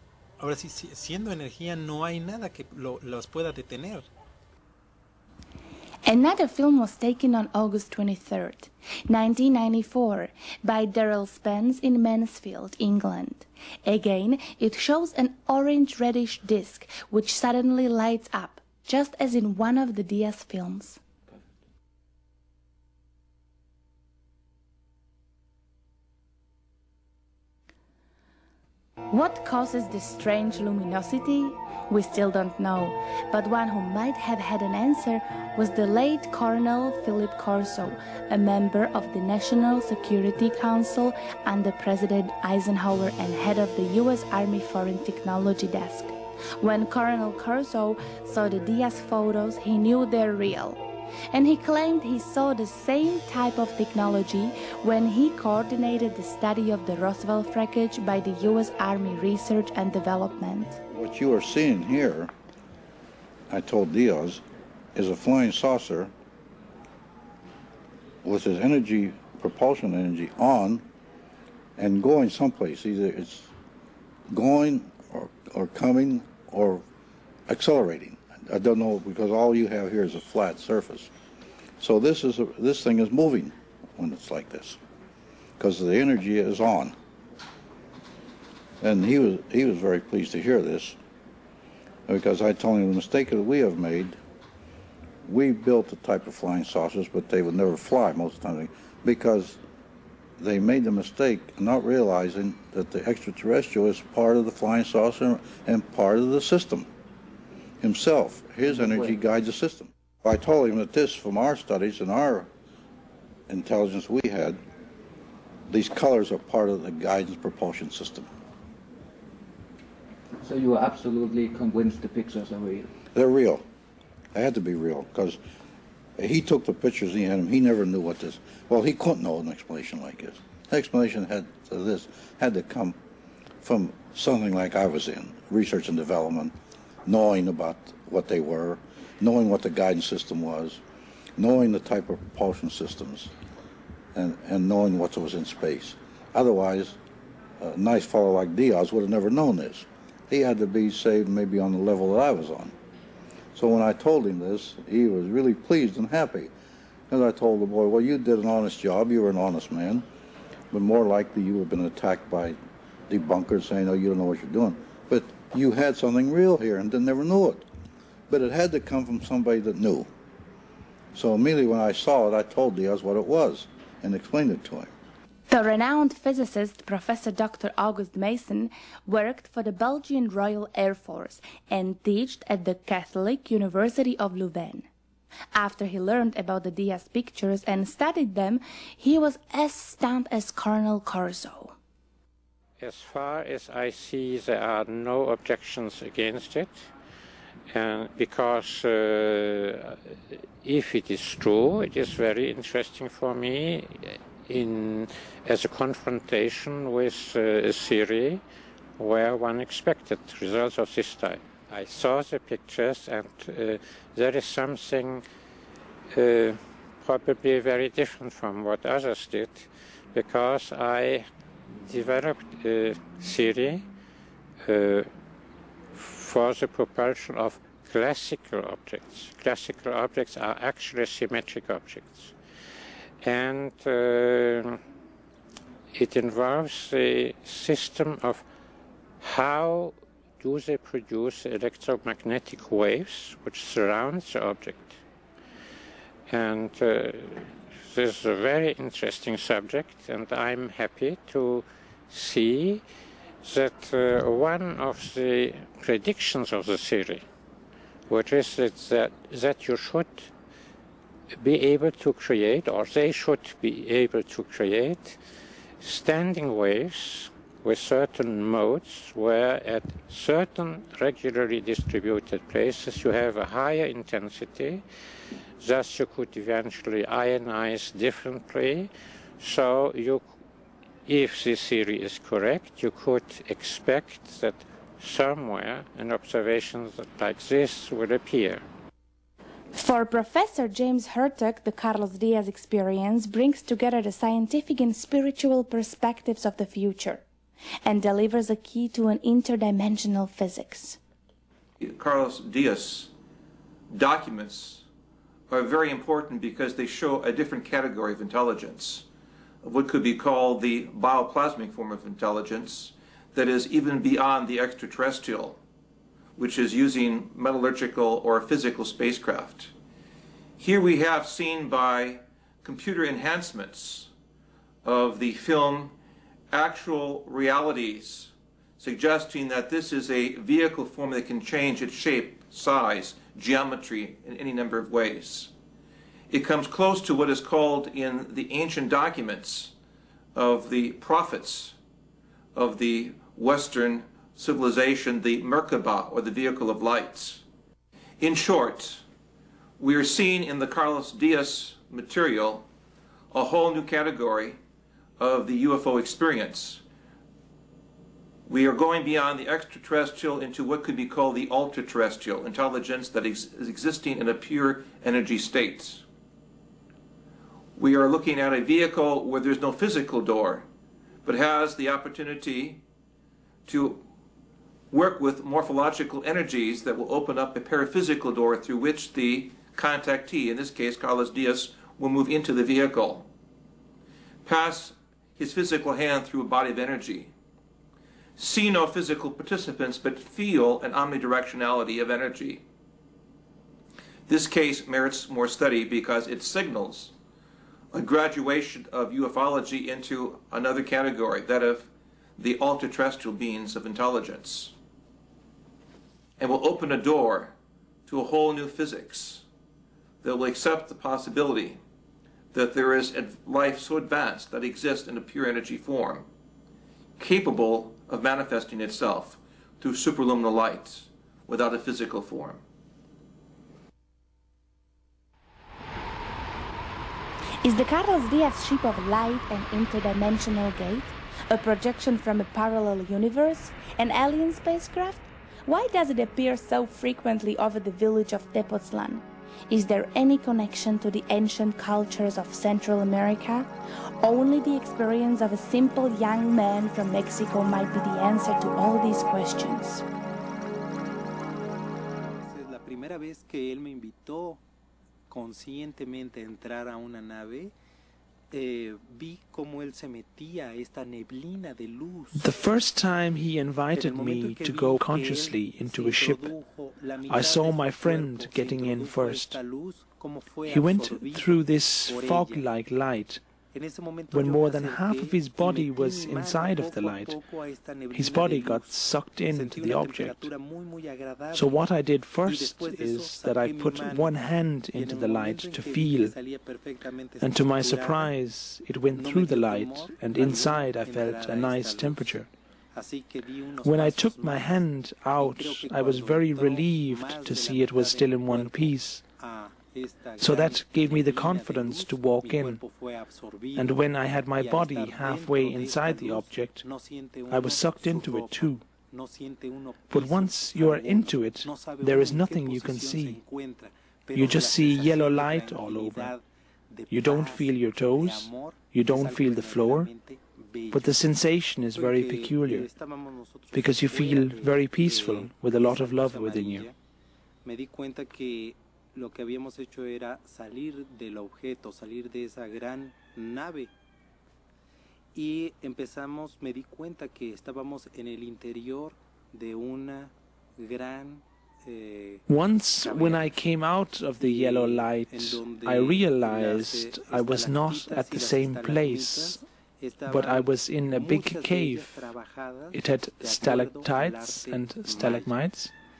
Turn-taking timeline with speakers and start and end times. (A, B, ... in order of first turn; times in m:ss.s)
0:00.4-0:04.1 A
0:06.1-0:21.0 B
0:29.1-0:50.8 B
0:51.3-1:00.8 B
1:00.9-1:02.3 C
1:03.5-1:04.4 C
1:05.0-1:06.1 C
1:08.2-1:10.8 C
1:11.8-1:13.5 C
1:14.3-1:16.8 C
1:17.5-1:21.1 C
1:21.8-1:24.8 C
1:25.6-1:26.9 C
1:28.8-1:31.0 C
1:32.1-1:34.2 C
1:35.2-1:39.6 C
1:40.4-1:46.9 C
1:47.8-1:52.5 C
1:53.5-1:54.6 C
1:55.7-1:58.3 C
2:00.6-2:02.7 D
2:03.2-2:03.6 C
2:04.3-2:05.4 C
2:06.2-2:13.0 C
2:13.6-2:16.5 C
2:17.1-2:20.8 C
2:21.4-2:23.3 C
2:24.2-2:27.0 C
2:27.6-2:32.7 C
2:33.6-2:36.5 C
2:37.1-2:40.0 C
2:40.7-2:42.6 C
2:43.1-2:47.6 C
2:48.3-2:50.1 C
2:51.1-2:54.9 C
2:55.5-3:04.9 B
3:05.6-3:11.8 B
3:12.8-3:16.9 E
3:17.7-3:28.4 E
3:29.0-3:35.2 E
3:36.1-3:41.3 E
3:41.8-3:43.9 E
3:44.6-3:45.1 E
3:45.9-3:52.4 E
3:53.2-3:54.8 E
3:55.9-3:58.5 E
3:59.2-4:05.0 E
4:06.3-4:12.8 E
4:13.4-4:17.3 E
4:18.1-4:20.3 E
4:21.3-4:25.2 E
4:25.8-4:34.8 E
4:35.6-4:40.3 E
4:41.1-4:48.6 E
4:49.8-4:57.2 B
4:57.8-5:01.0 B
5:01.8-5:03.1 F
5:03.9-5:04.8 F
5:05.5-5:09.1 F
5:09.6-5:15.6 F
5:16.4-5:19.7 F
5:20.6-5:24.1 F
5:24.8-5:26.0 F
5:26.5-5:35.5 F
5:36.3-5:39.7 F
5:40.4-5:41.8 F
5:42.6-5:47.4 F
5:48.2-5:49.0 F
5:49.8-5:52.7 F
5:53.3-5:54.6 F
5:55.2-5:56.8 F
5:58.5-6:06.0 F
6:07.8-6:10.7 F
6:11.2-6:12.8 F
6:13.7-6:14.1 F
6:14.9-6:23.3 F
6:24.4-6:27.3 F
6:28.4-6:32.6 F
6:34.3-6:37.1 F
6:37.9-6:44.7 F
6:46.4-6:47.6 F
6:48.1-6:49.4 F
6:50.2-6:51.8 F
6:52.5-6:56.3 F
6:57.2-7:02.6 F
7:07.6-7:23.7 B
7:24.2-7:30.0 B
7:32.4-7:34.6 A
7:35.3-7:37.7 A
7:38.5-7:42.5 A
7:42.4-7:46.5 G
7:43.9-7:52.6 A
7:47.3-7:49.6 G
7:50.7-7:53.4 G
7:53.7-7:59.0 A
7:54.3-7:57.3 G
7:58.1-8:00.5 G
7:59.5-8:01.8 A
8:01.5-8:06.3 G
8:02.4-8:08.3 A
8:07.4-8:12.5 G
8:09.2-8:12.3 A
8:13.0-8:14.8 A
8:13.8-8:19.2 G
8:15.4-8:23.9 A
8:20.4-8:22.8 G
8:23.8-8:26.8 G
8:24.6-8:41.2 A
8:27.5-8:28.8 G
8:30.1-8:33.4 G
8:34.3-8:36.3 G
8:37.1-8:40.1 G
8:40.9-8:42.9 G
8:42.0-8:46.9 A
8:43.7-8:46.9 G
8:47.6-8:53.9 A
8:55.4-9:02.4 A
9:02.5-9:09.6 G
9:03.0-9:03.5 A
9:04.4-9:15.5 A
9:10.3-9:12.2 G
9:12.9-9:15.9 G